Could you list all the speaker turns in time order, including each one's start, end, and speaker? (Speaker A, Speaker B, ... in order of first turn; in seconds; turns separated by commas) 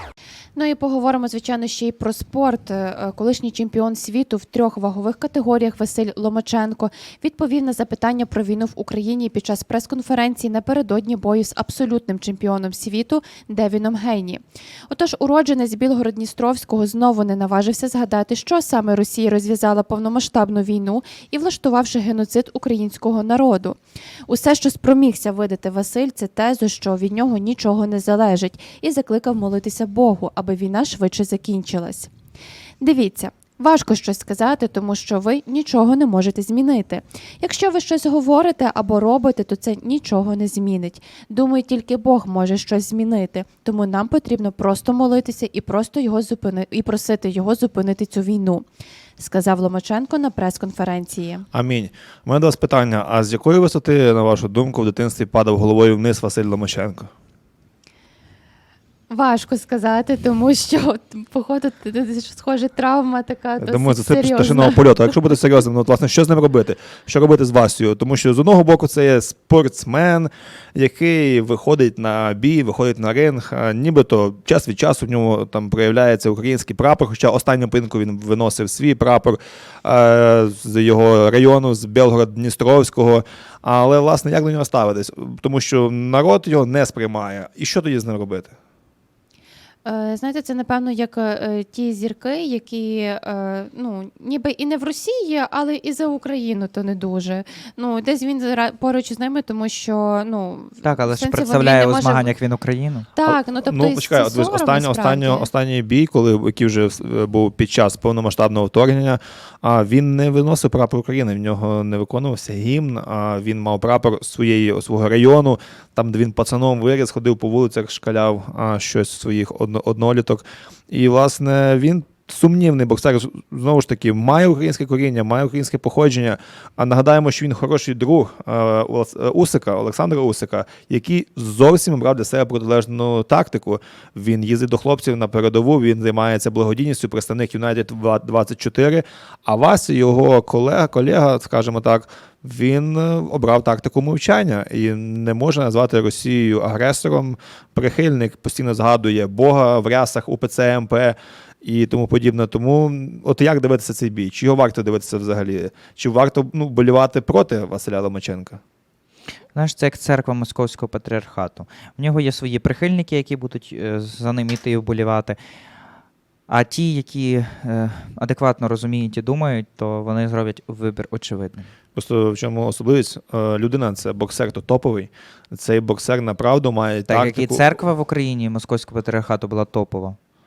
Speaker A: 0.5-32.1, Speaker A: 32.8-48.6, Speaker A: 49.2-51.4, Speaker B: 51.5-57.1, Speaker A: 59.1-65.1, Speaker B: 63.6-88.5, Speaker A: 89.8-102.3, Speaker C: 100.8-103.1, Speaker A: 103.1-105.5, Speaker B: 103.2-158.6, Speaker C: 159.5-165.4, Speaker C: 166.5-171.7, Speaker B: 171.9-177.8, Speaker C: 177.1-180.2